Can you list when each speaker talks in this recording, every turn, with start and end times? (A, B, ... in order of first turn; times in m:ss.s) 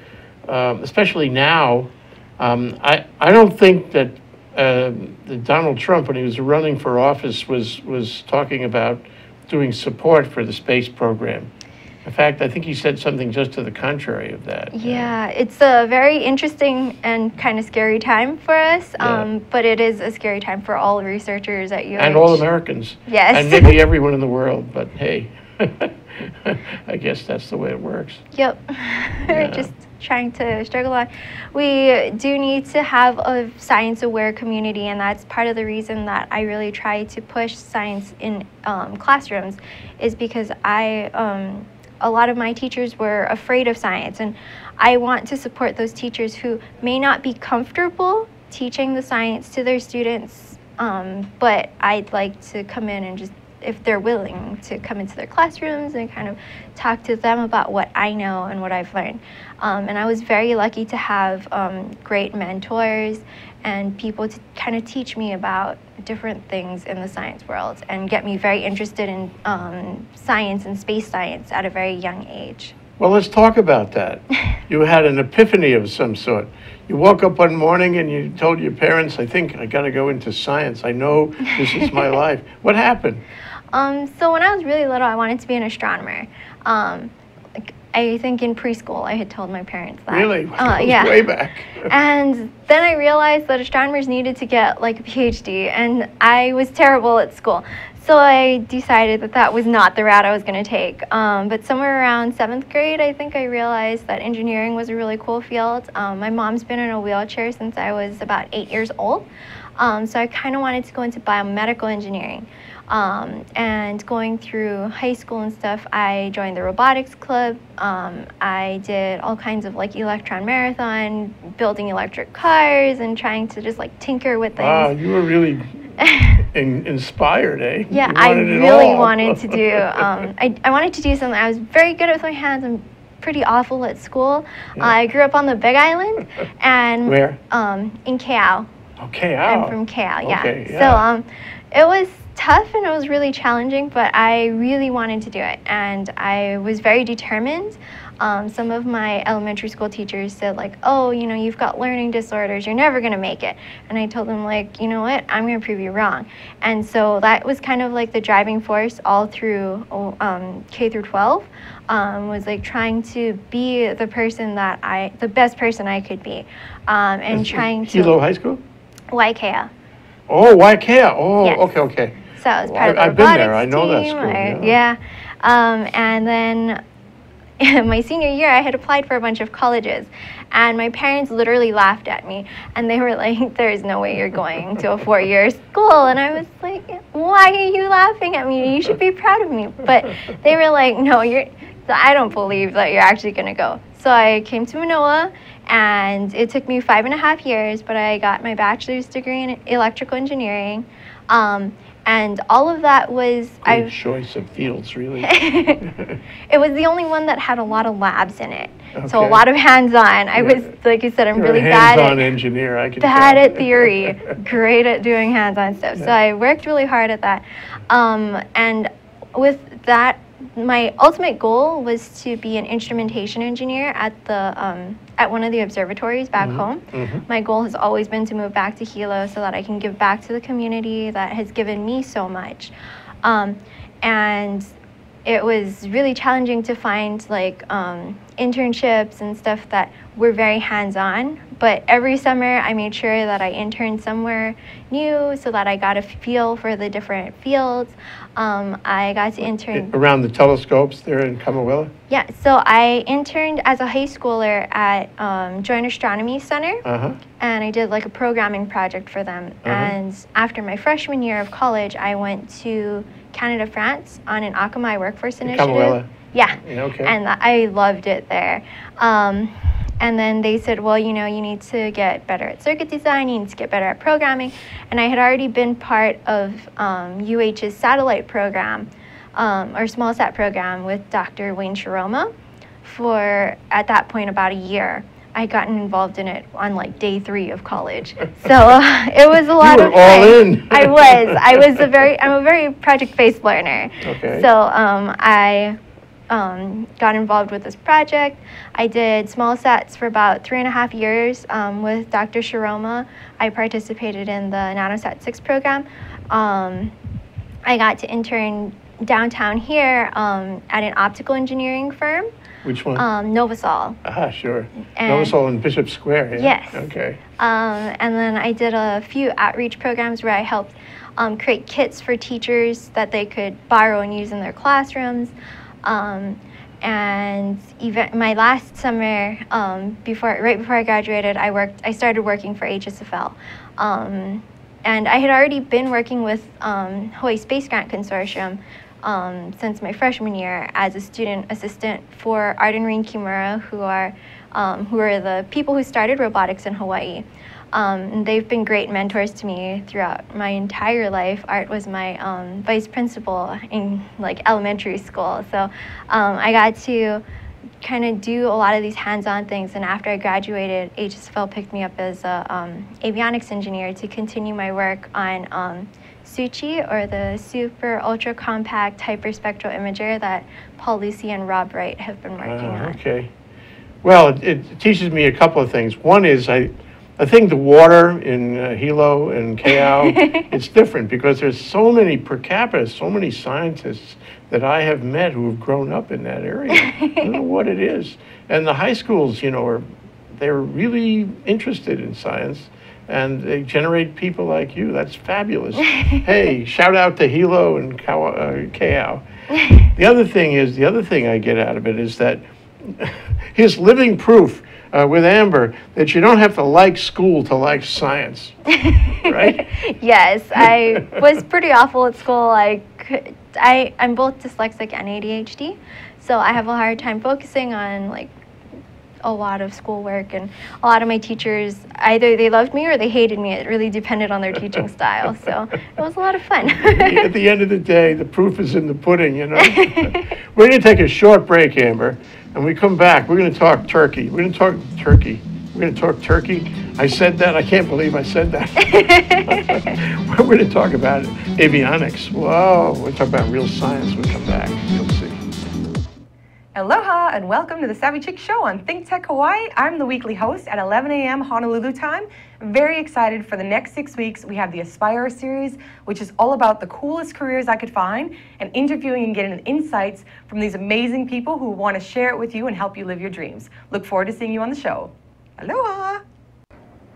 0:00.4-0:11.5 A
0:12.0-0:15.1 A
0:14.7-0:22.4 B
0:19.0-0:19.3 A
0:22.0-0:28.2 A
0:23.1-0:23.8 B
0:28.3-1:12.8 B
0:29.3-0:29.7 A
1:13.0-1:23.2 A
1:23.7-1:31.2 B
1:30.1-1:31.9 A
1:31.8-2:04.9 B
2:04.6-2:10.2 A
2:06.0-2:06.4 B
2:07.9-2:18.7 B
2:17.0-2:17.4 A
2:19.0-2:21.0 A
2:19.4-2:48.2 B
2:47.3-2:48.6 A
2:49.1-2:49.7 B
2:50.3-2:54.8 A
2:51.4-2:51.8 B
2:52.4-2:56.8 B
2:57.6-3:23.9 B
3:23.6-3:26.2 A
3:25.2-3:25.8 B
3:26.5-3:32.3 B
3:28.9-3:29.4 A
3:30.4-3:30.6 A
3:31.3-3:34.3 A
3:33.0-3:52.7 B
3:46.4-3:47.2 A
3:53.2-3:54.7 B
3:55.2-4:09.9 B
4:09.7-4:11.9 A
4:12.1-4:16.8 B
4:16.8-4:17.2 A
4:17.4-4:42.3 B
4:19.6-4:19.9 A
4:25.4-4:27.1 A
4:42.8-4:55.8 B
4:49.6-4:51.7 A
4:54.0-4:54.5 A
4:56.3-5:06.9 B
5:07.6-5:12.3 B
5:12.6-5:13.0 A
5:13.0-5:14.0 B
5:14.0-5:17.2 A
5:14.9-5:15.3 B
5:16.3-5:57.2 B
5:57.8-6:13.0 B
6:12.4-6:13.3 A
6:14.0-6:39.2 A
6:20.1-6:20.4 B
6:26.8-6:27.2 B
6:39.8-6:48.6 A
6:48.7-6:58.3 B
6:49.2-6:49.7 A
6:59.2-7:07.3 B
7:06.7-7:25.4 A
7:09.6-7:10.3 B
7:18.8-7:19.9 B
7:26.7-7:46.2 C